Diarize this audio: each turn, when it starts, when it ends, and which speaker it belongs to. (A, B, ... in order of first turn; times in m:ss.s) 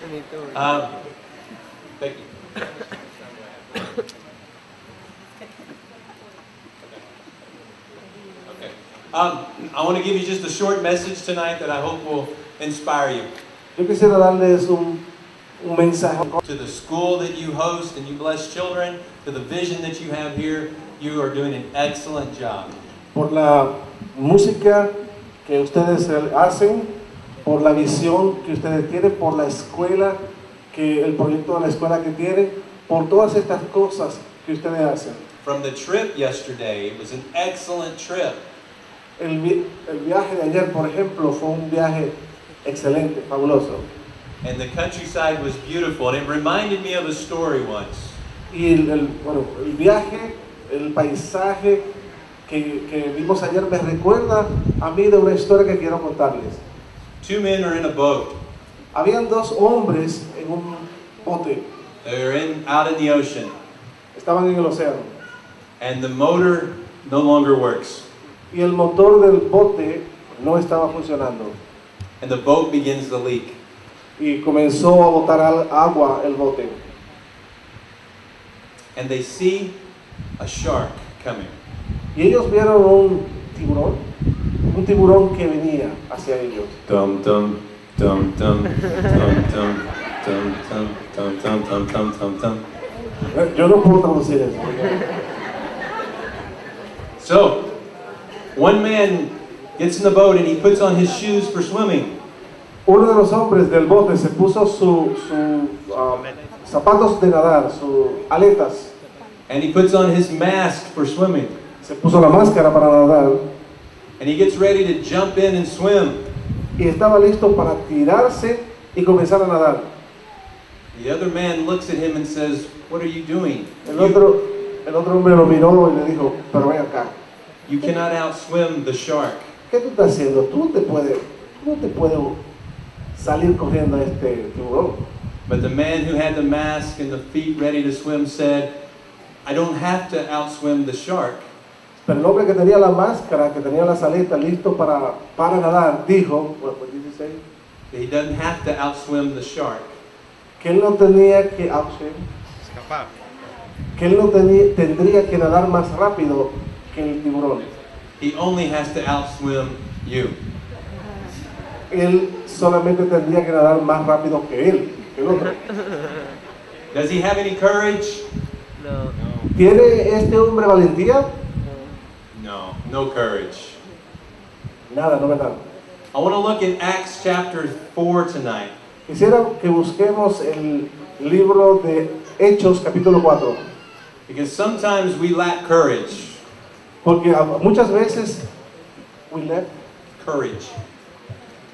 0:00.5-0:01.0 A
0:02.0-0:03.9 A
0:08.5-0:13.3 A
0:13.8-0:15.0 B
0:15.6-0:16.4 B
0:16.4-0:22.8 A
0:23.1-0:24.9 B
0:25.4-0:26.9 B
0:27.4-0:30.2 B
0:30.7-0:35.3 B
0:35.4-0:38.4 A
0:39.2-0:42.1 B
0:42.6-0:43.9 B
0:44.4-0:48.2 A
0:48.5-0:51.8 B
0:52.5-0:56.6 B
0:57.2-0:58.3 A
0:58.9-1:01.7 B
1:02.0-1:03.5 A
1:04.1-1:05.2 B
1:05.8-1:08.1 A
1:08.5-1:11.6 B
1:12.2-1:13.6 A
1:14.2-1:16.8 B
1:19.0-1:19.8 A
1:20.4-1:21.6 A
1:22.2-1:24.0 B
1:24.7-1:26.8 B
1:26.9-1:32.6 A
1:33.3-1:35.0 B
1:37.2-1:37.6 A
1:38.6-1:42.2 A
1:42.9-1:48.9 B
1:49.5-1:51.6 A
1:51.8-1:53.4 B
1:54.2-1:56.2 A
1:56.8-1:59.9 B
2:00.9-2:04.2 A
2:03.9-2:07.2 B
2:07.7-2:09.5 A
2:09.7-2:12.4 B
2:13.1-2:15.0 B
2:15.5-2:18.7 A
2:19.4-2:21.5 A
2:22.0-2:27.4 B
2:27.9-2:29.9 A
2:30.6-2:32.3 B
2:32.7-2:33.1 A
2:34.0-2:37.7 B
2:38.2-2:40.4 A
2:41.9-2:45.6 B
2:46.9-2:48.3 A
2:49.5-2:51.3 B
2:52.3-2:53.8 A
2:54.9-2:55.6 B
2:56.1-2:58.7 A
2:59.1-3:03.7 B
3:04.3-3:06.4 A
3:07.0-3:08.5 B
3:09.3-3:09.7 B
3:10.2-3:10.8 A